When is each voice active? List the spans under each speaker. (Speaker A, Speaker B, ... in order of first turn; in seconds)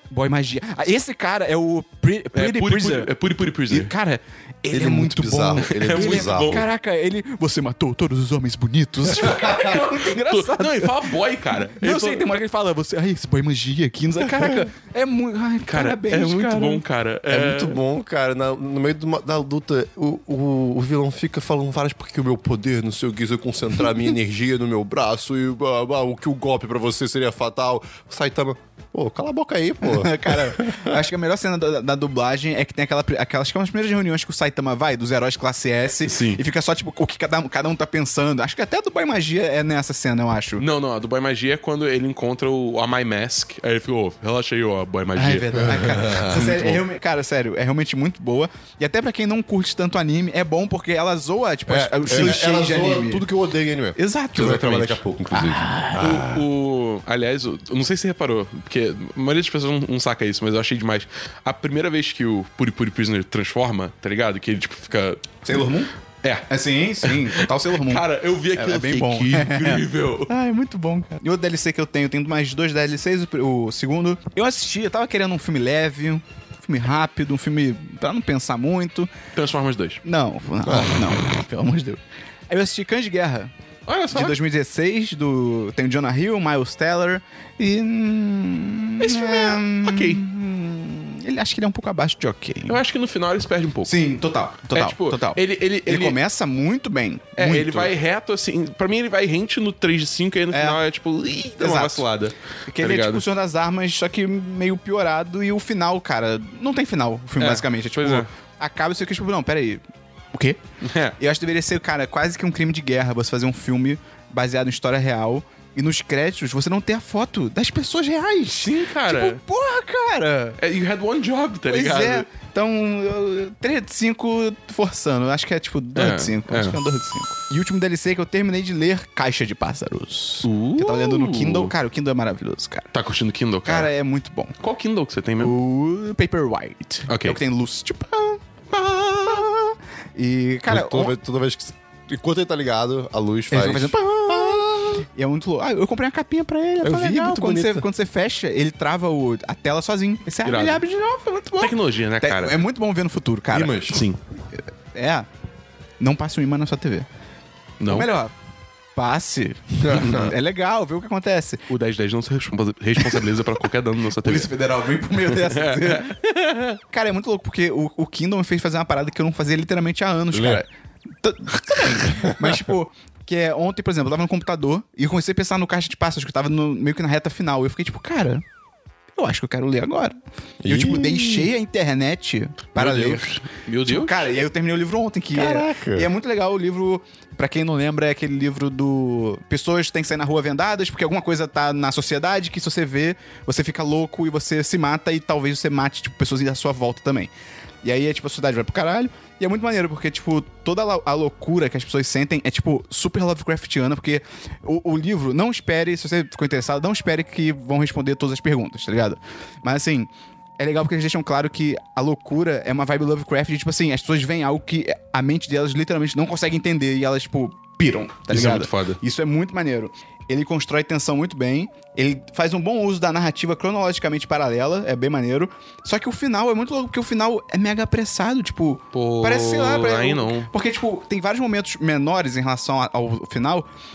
Speaker A: 0.1-3.1, 3.7-11.1, 11.7-16.8, 29.8-40.6, 45.1-53.2, 54.0-56.2, 65.4-65.9, 66.5-79.1, 80.0-83.5, 84.1-92.8, 93.9-97.9, 100.5-100.8, 101.6-102.1, 102.7-109.8, 110.3-110.6, 111.2-120.6, 121.7-132.9, 133.7-134.5, 135.4-138.4, 139.1-141.2, 143.5-153.8, 154.9-155.3, 156.0-157.1, 157.9-158.3, 158.9-161.6, 164.2-166.1, 166.9-170.7, 171.2-178.4, 179.2-197.3, 197.8-233.7
Speaker B: 2.3-3.9, 5.6-6.7, 9.2-12.3, 14.2-14.6, 15.7-17.8, 36.0-36.4, 40.6-46.8, 56.0-65.4, 67.0-70.3, 79.3-80.0, 83.9-84.4, 89.0-90.2, 92.7-93.9, 94.7-96.2, 97.4-103.2, 107.4-108.3, 110.8-111.2, 118.5-119.4, 120.6-122.3, 126.0-126.8, 130.4-131.7, 132.9-133.9, 134.6-135.6, 137.1-137.4, 150.4-150.8, 151.6-152.6, 153.9-154.2, 157.8-158.1, 160.0-160.3, 161.7-164.5, 165.2-166.8, 182.8-184.3, 218.3-219.0, 228.9-230.5
Speaker C: 4.7-6.7, 9.2-9.6, 17.3-30.9, 45.5-46.7, 51.7-56.5, 80.6-81.1, 140.7-145.0, 146.8-147.8, 153.5-154.1, 159.8-160.3, 170.3-170.6, 172.1-172.6, 180.6-181.5, 185.3-186.1